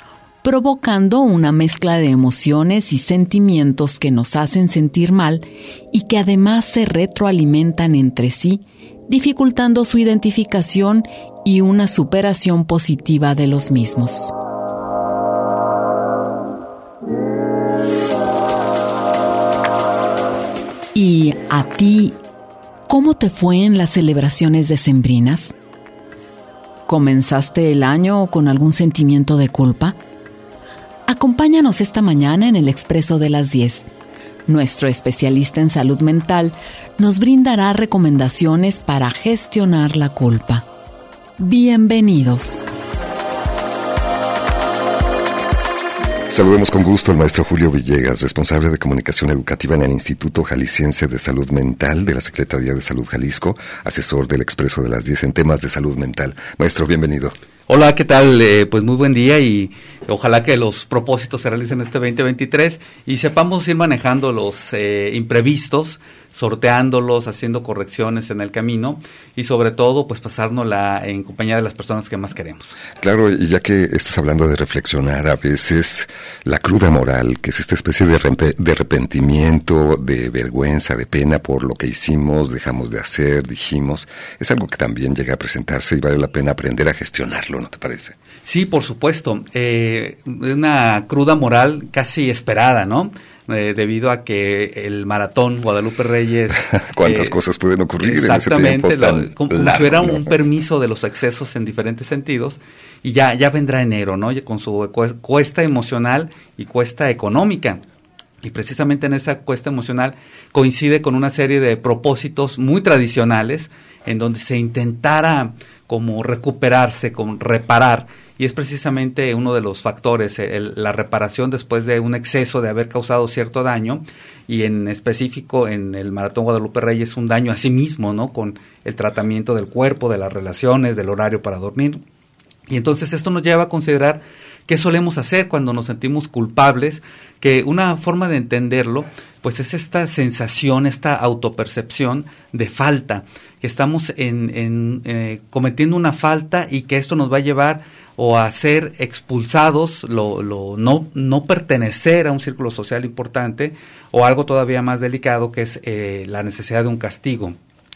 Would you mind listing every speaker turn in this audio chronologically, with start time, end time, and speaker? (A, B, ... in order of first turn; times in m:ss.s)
0:00.4-0:14.3 A
0:20.9-0:22.2 A
0:22.9-0:25.5 A
0:26.9-0:30.0 A
0:31.1-0:33.9 A
0:34.5-0:40.7 A
0:41.4-0:42.7 A
0:46.3-0:57.4 B
0:57.7-1:12.8 C
1:13.0-1:28.2 B
1:28.5-1:37.4 C
1:36.7-1:40.4 B
1:38.0-1:47.8 C
1:48.4-2:12.0 C
2:12.7-2:37.6 C